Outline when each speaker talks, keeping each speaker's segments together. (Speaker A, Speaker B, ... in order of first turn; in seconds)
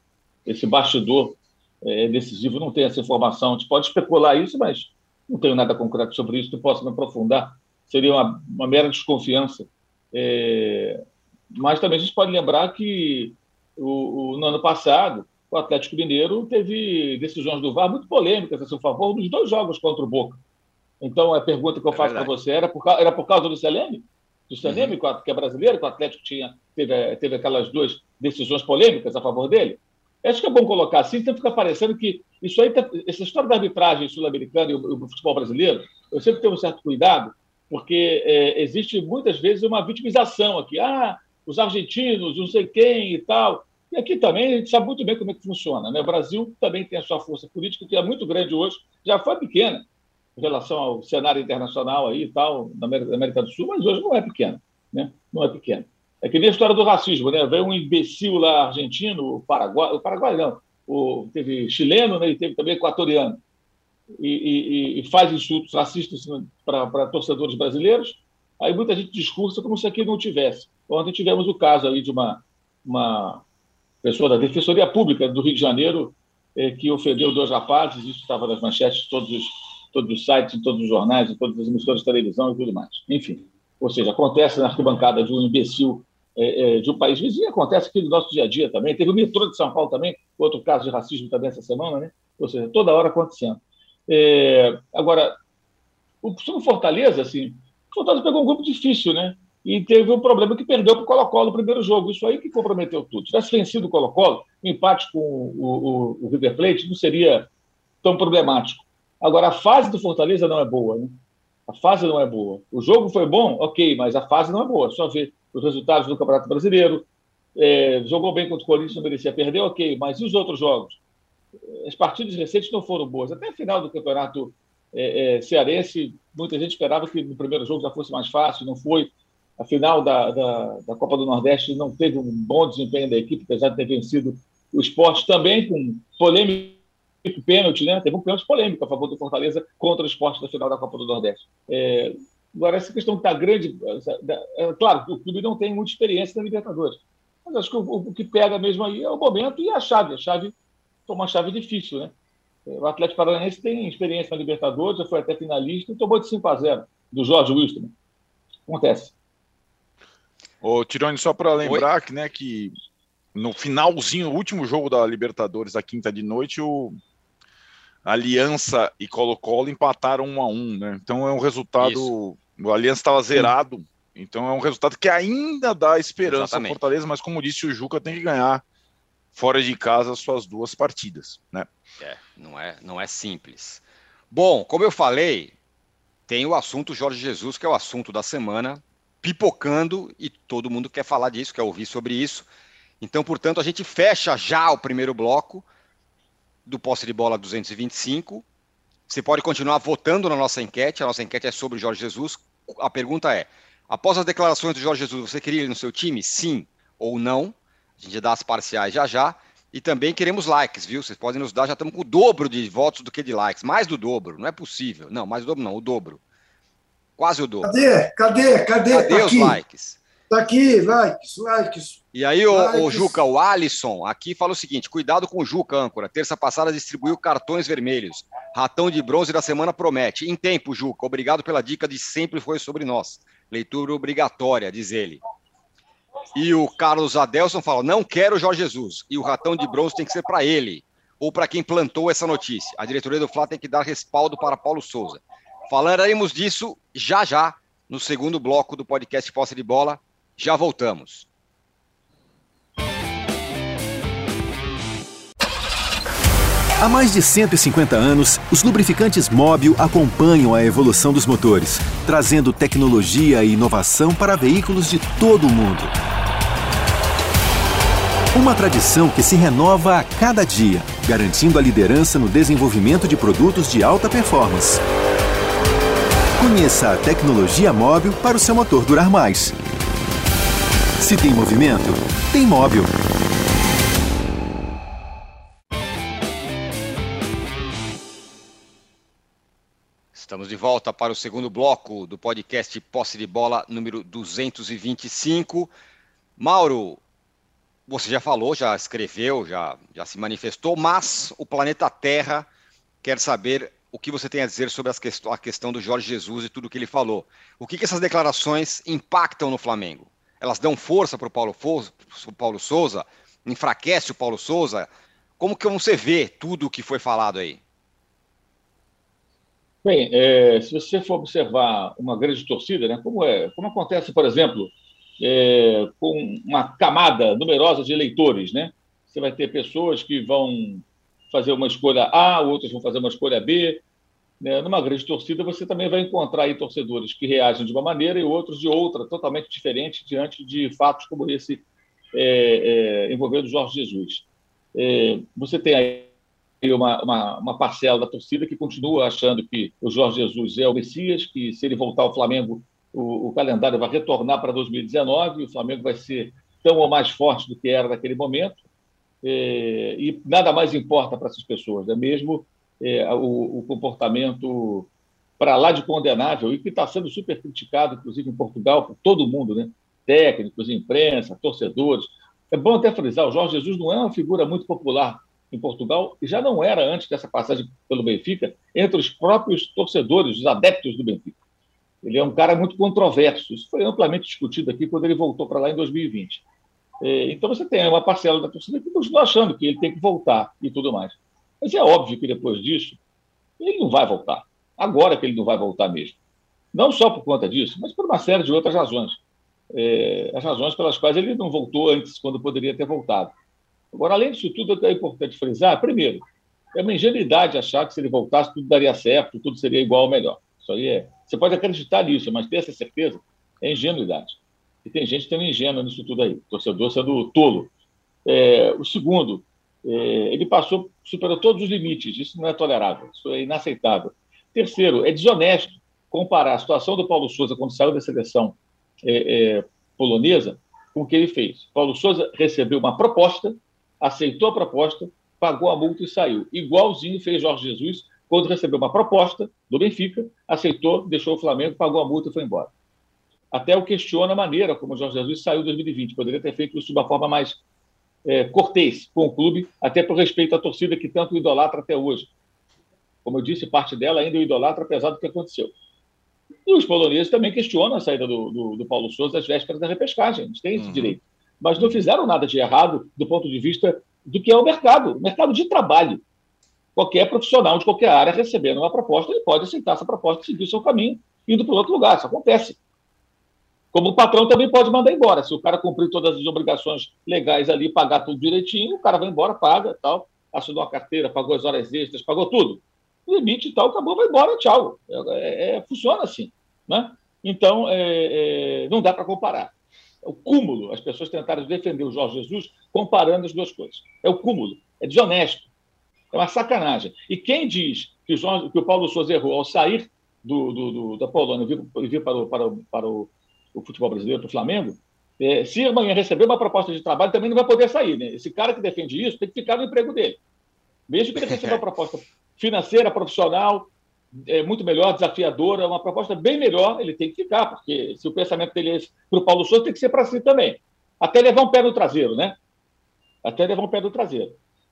Speaker A: 0.5-11.0, 11.5-20.4, 21.0-49.9, 50.4-63.4, 64.2-73.4, 74.0-95.4, 96.2-107.5, 108.0-121.0, 121.7-150.6, 151.1-152.1, 152.7-157.9, 158.7-159.1, 319.8-333.8, 334.4-346.1, 346.6-358.6, 359.2-381.4, 382.0-386.4, 387.0-393.0, 393.6-396.2, 396.7-399.2, 399.7-403.3, 403.9-406.2, 406.7-417.7, 418.3-442.7, 443.5-447.6, 448.3-452.3, 453.2-455.7, 456.7-466.2, 466.9-472.8, 473.9-489.7, 490.2-495.7, 496.3-510.4, 511.1-522.6, 523.4-524.6
Speaker B: 21.9-22.3, 160.6-162.7, 163.3-167.0, 168.1-178.6, 179.3-181.7, 460.8-461.2
Speaker C: 161.6-161.9, 171.8-172.1, 176.2-176.8, 182.0-185.6, 186.3-192.5, 193.0-195.7, 196.7-198.4, 199.1-216.2, 217.2-217.7, 218.9-220.0, 222.1-235.2, 236.3-251.3, 290.1-295.7, 296.4-297.0, 297.9-302.5, 303.0-317.6, 511.4-511.8
Speaker D: 217.6-219.6, 220.3-223.2
Speaker E: 256.8-265.9, 268.3-274.8, 276.4-279.6, 281.0-282.9